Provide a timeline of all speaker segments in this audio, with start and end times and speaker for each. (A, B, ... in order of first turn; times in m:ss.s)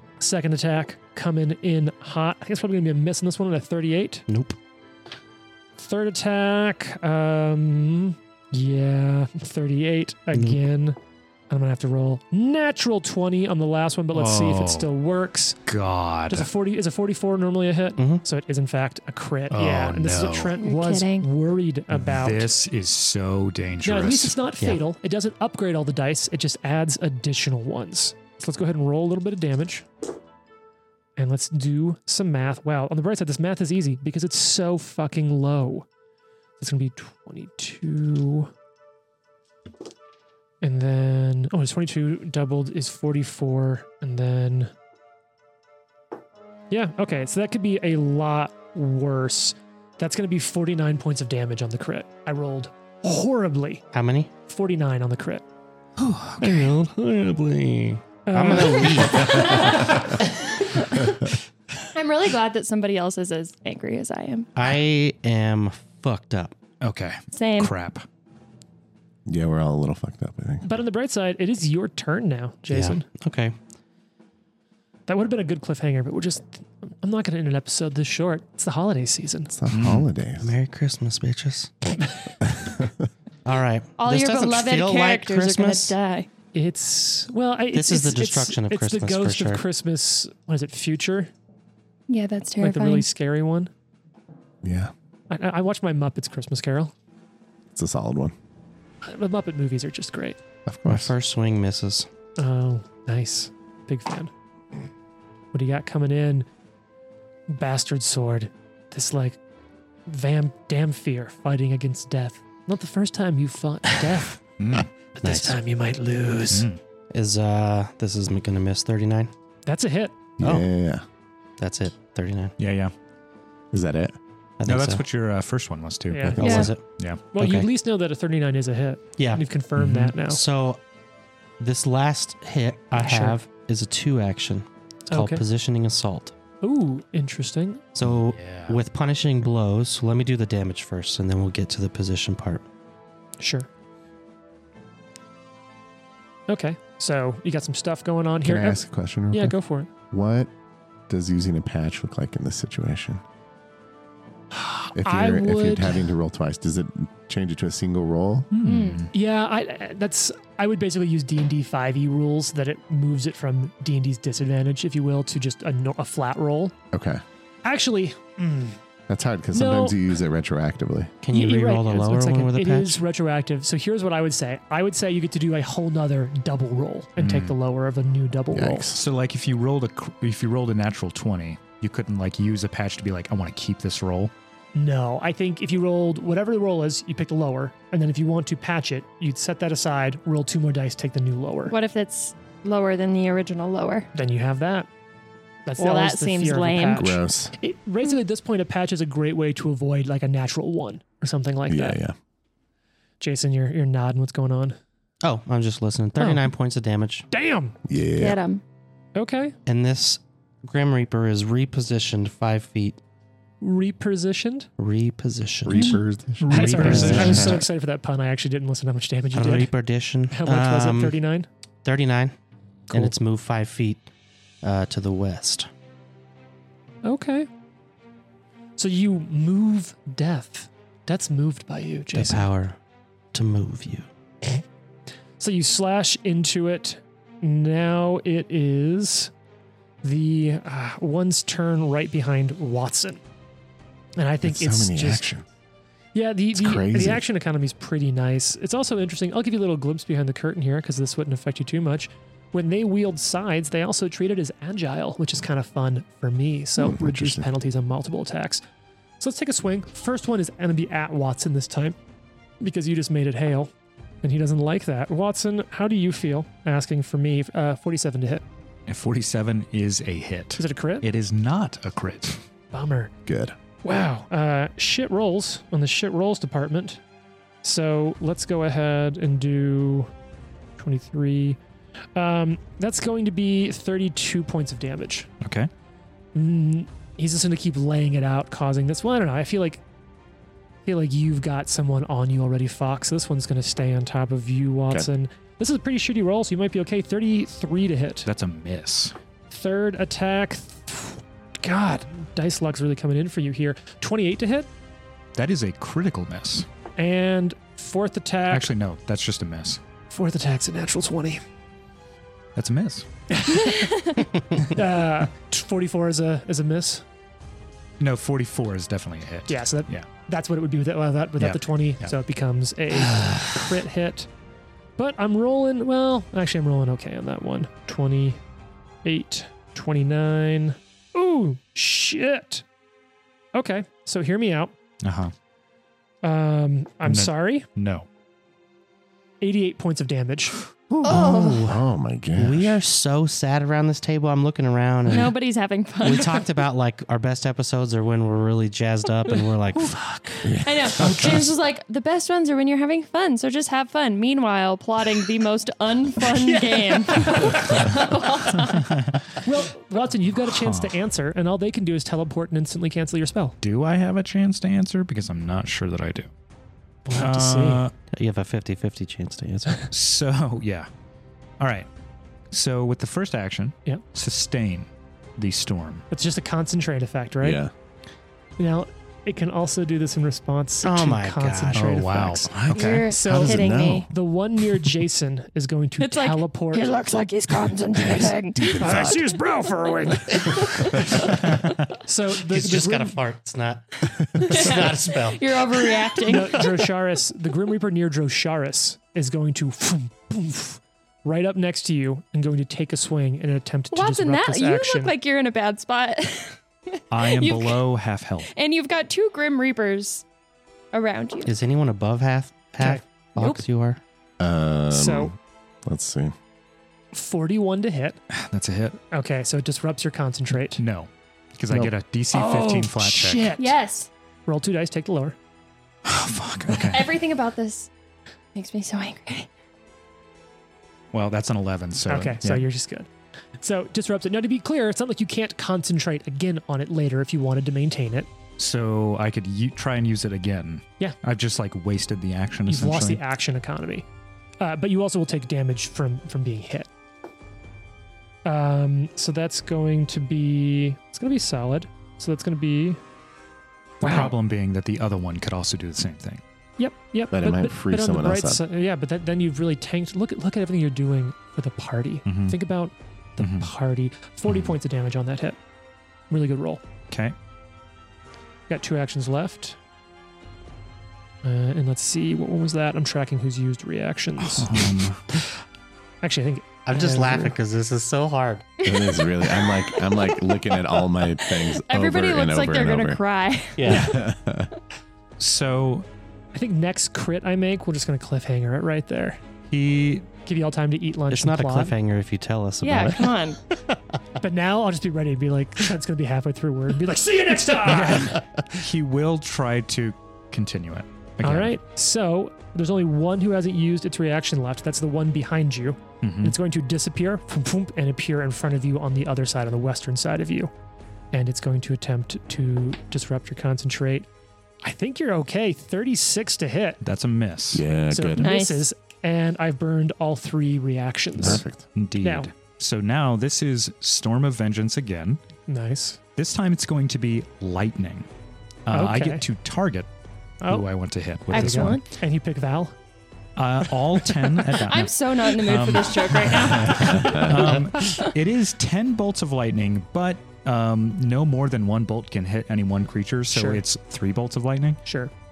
0:00.2-0:04.2 A
0:04.3-0:04.6 B
0:05.8-0:11.0 A
0:10.3-0:10.6 B
0:11.5-0:15.6 A
0:14.1-0:14.9 C
0:15.7-0:16.5 C
0:16.3-0:22.5 A
0:18.0-0:18.2 B
0:19.5-0:20.5 C
0:20.5-0:21.3 D
0:21.9-0:24.3 C
0:23.8-0:29.9 A
0:31.2-0:35.9 A
0:36.6-0:38.5 A
0:40.6-0:44.7 A
0:46.7-0:53.8 A
0:53.9-0:54.3 B
0:54.4-0:55.4 A
0:56.0-0:56.7 C
0:56.4-1:00.0 B
0:58.2-0:59.5 A
0:59.4-0:59.8 D
1:00.6-1:00.9 D
1:01.9-1:04.5 D
1:04.6-1:06.5 B
1:06.8-1:08.0 C
1:07.3-1:07.7 D
1:09.2-1:10.7 E
1:10.6-1:13.0 A
1:12.7-1:13.6 B
1:15.1-1:19.6 A
1:19.6-1:20.5 E
1:19.7-1:20.1 C
1:20.4-1:22.0 B
1:22.4-1:23.0 E
1:23.4-1:25.9 B
1:24.0-1:26.3 D
1:26.5-1:31.3 A
1:27.7-1:29.6 B
1:32.1-1:33.1 D
1:32.6-1:33.7 A
1:34.6-1:34.9 E
1:35.3-1:36.9 A
1:37.7-1:38.3 E
1:39.0-1:40.4 A
1:40.6-1:41.1 E
1:40.8-1:42.1 B
1:42.4-1:44.3 A
1:45.5-1:46.5 A
1:47.5-1:49.4 A
1:50.0-1:54.4 A
1:54.6-1:54.9 C
1:55.2-1:56.7 A
1:55.2-1:55.6 B
1:56.5-1:56.8 C
1:57.1-1:59.3 B
1:59.6-2:00.3 A
2:00.4-2:01.0 E
2:00.4-2:00.7 B
2:01.6-2:02.6 B
2:02.6-2:02.9 C
2:03.7-2:04.2 E
2:04.6-2:05.0 B
2:04.6-2:06.4 C
2:06.1-2:06.7 A
2:06.2-2:06.7 E
2:06.4-2:06.8 B
2:06.4-2:06.7 D
2:06.9-2:07.2 C
2:07.3-2:10.4 A
2:07.4-2:07.7 B
2:09.2-2:09.4 B
2:09.8-2:10.1 C
2:10.2-2:10.8 B
2:11.6-2:16.3 B
2:12.9-2:13.4 A
2:15.1-2:15.4 A
2:16.6-2:17.9 A
2:17.9-2:22.6 B
2:18.0-2:18.8 C
2:23.4-2:23.7 A
2:26.5-2:29.9 A
2:28.4-2:29.6 E
2:30.1-2:30.5 E
2:31.1-2:33.2 E
2:34.5-2:36.1 A
2:34.9-2:38.5 E
2:38.5-2:39.1 C
2:38.6-2:39.0 D
2:39.1-2:46.7 A
2:46.9-2:47.2 E
2:47.6-2:48.8 A
2:49.1-2:51.1 E
2:49.5-2:50.0 A
2:51.2-2:53.0 B
2:51.3-2:58.9 A
2:57.2-2:57.5 C
2:58.5-2:59.0 E
2:58.9-3:04.3 C
3:04.7-3:11.7 A
3:11.7-3:14.1 D
3:14.1-3:14.9 A
3:15.6-3:22.0 A
3:15.8-3:17.1 D
3:17.0-3:17.5 E
3:21.7-3:22.1 E
3:23.2-3:24.8 A
3:25.2-3:27.3 B
3:26.2-3:26.4 A
3:27.3-3:27.8 A
3:27.9-3:28.4 E
3:28.2-3:28.6 D
3:29.1-3:29.6 A
3:29.6-3:33.0 B
3:33.6-3:34.7 A
3:34.8-3:37.6 B
3:35.6-3:37.6 E
3:36.4-3:37.6 C
3:36.5-3:39.7 A
3:39.3-3:41.2 B
3:40.3-3:41.5 A
3:41.8-3:42.4 B
3:42.9-3:44.1 B
3:44.6-3:45.7 B
3:47.0-3:47.5 A
3:48.8-3:52.5 A
3:52.1-3:52.8 B
3:53.3-3:54.1 B
3:55.4-3:59.3 A
4:00.0-4:03.2 A
4:04.2-4:05.2 A
4:04.4-4:05.4 E
4:06.1-4:18.6 A
4:06.5-4:07.2 E
4:16.8-4:17.4 E
4:19.2-4:22.0 A
4:22.6-4:23.7 A
4:24.2-4:28.4 A
4:28.9-4:32.4 C
4:30.6-4:31.0 A
4:32.7-4:33.1 A
4:33.2-4:33.5 E
4:33.8-4:37.0 A
4:37.6-4:40.1 A
4:40.8-4:41.6 A
4:42.1-4:45.3 A
4:45.4-4:45.7 C
4:46.3-4:49.8 A
4:50.8-4:58.3 A
4:58.2-4:59.1 C
4:59.5-5:04.7 A
5:05.3-5:06.6 C
5:07.0-5:08.7 A
5:08.5-5:09.8 C
5:10.1-5:11.4 A
5:12.6-5:13.0 C
5:13.3-5:17.0 A
5:13.6-5:14.2 D
5:18.0-5:20.1 C
5:19.5-5:24.3 A
5:21.4-5:22.1 C
5:25.0-5:28.4 A
5:29.0-5:32.6 A
5:33.5-5:34.7 A
5:35.0-5:35.3 C
5:36.2-5:37.7 A
5:37.0-5:38.1 C
5:39.4-5:40.6 A
5:41.0-5:41.8 B
5:41.0-5:42.8 E
5:41.0-5:41.6 D
5:42.4-5:45.3 B
5:45.1-5:46.5 D
5:46.0-5:50.1 B
5:50.4-5:51.4 E
5:50.6-5:58.9 D
5:51.0-5:51.4 C
5:56.4-5:58.0 A
5:58.6-5:59.2 C
5:59.4-6:03.6 A
6:00.5-6:01.0 C
6:03.6-6:06.3 C
6:07.0-6:07.8 A
6:07.1-6:07.9 C
6:08.1-6:09.9 B
6:09.9-6:10.9 C
6:11.6-6:11.9 C
6:12.5-6:16.0 C
6:16.1-6:17.6 A
6:17.4-6:17.7 E
6:18.6-6:22.5 A
6:20.8-6:21.9 B
6:21.7-6:22.8 C
6:22.5-6:23.0 B
6:22.7-6:24.1 D
6:23.0-6:27.0 A
6:23.2-6:24.1 E
6:26.0-6:29.1 D
6:28.0-6:29.2 E
6:28.8-6:33.2 A
6:30.3-6:31.1 D
6:32.5-6:35.9 B
6:34.5-6:36.7 D
6:36.2-6:45.1 A
6:43.9-6:47.8 D
6:47.1-6:48.5 C
6:48.5-6:50.2 D
6:50.9-6:51.5 D
6:51.4-6:54.0 B
6:53.4-6:53.6 D
6:54.4-6:56.3 E
6:54.9-6:55.3 A
6:57.1-6:58.2 A
6:58.3-6:59.0 C
6:59.1-7:00.8 A
7:00.8-7:03.5 C
7:02.3-7:03.8 A
7:03.6-7:04.1 D
7:04.4-7:05.4 A
7:06.0-7:07.1 C
7:06.9-7:07.9 D
7:08.5-7:09.5 D
7:11.1-7:12.6 C
7:12.1-7:18.3 A
7:18.6-7:23.2 C
7:22.6-7:24.0 A
7:24.6-7:26.9 A
7:28.4-7:33.0 A
7:34.0-7:34.3 A
7:34.0-7:36.4 C
7:36.8-7:45.6 A
7:37.3-7:38.6 E
7:42.2-7:42.6 C
7:43.4-7:43.7 C
7:46.3-7:46.8 A
7:47.1-7:47.4 C
7:48.7-7:49.8 A
7:51.4-7:54.8 A
7:54.4-7:55.4 C
7:56.2-7:57.5 A
7:56.8-7:58.7 B
7:58.8-8:04.2 D
7:58.8-8:03.2 E
8:03.8-8:04.2 B
8:03.8-8:04.7 E
8:05.4-8:06.0 C
8:06.5-8:09.4 A
8:09.7-8:10.3 C
8:10.4-8:11.9 A
8:11.3-8:13.4 B
8:12.8-8:13.6 D
8:14.4-8:18.4 A
8:17.9-8:21.7 C
8:21.4-8:30.7 A
8:26.2-8:26.6 C
8:31.3-8:34.3 A
8:34.8-8:37.0 A
8:37.0-8:37.8 C
8:37.7-8:38.5 E
8:38.1-8:41.6 A
8:38.4-8:38.8 D
8:41.4-8:45.4 C
8:41.4-8:41.8 E
8:42.2-8:42.5 A
8:45.7-8:46.2 A
8:46.4-8:48.3 C
8:48.9-8:50.1 C
8:48.9-8:49.4 A
8:50.7-8:52.0 C
8:51.5-8:52.9 A
8:51.5-8:52.0 D
8:53.6-9:05.0 C
8:54.8-8:58.3 D
8:56.8-8:57.7 A
9:03.5-9:03.8 A
9:05.0-9:05.3 A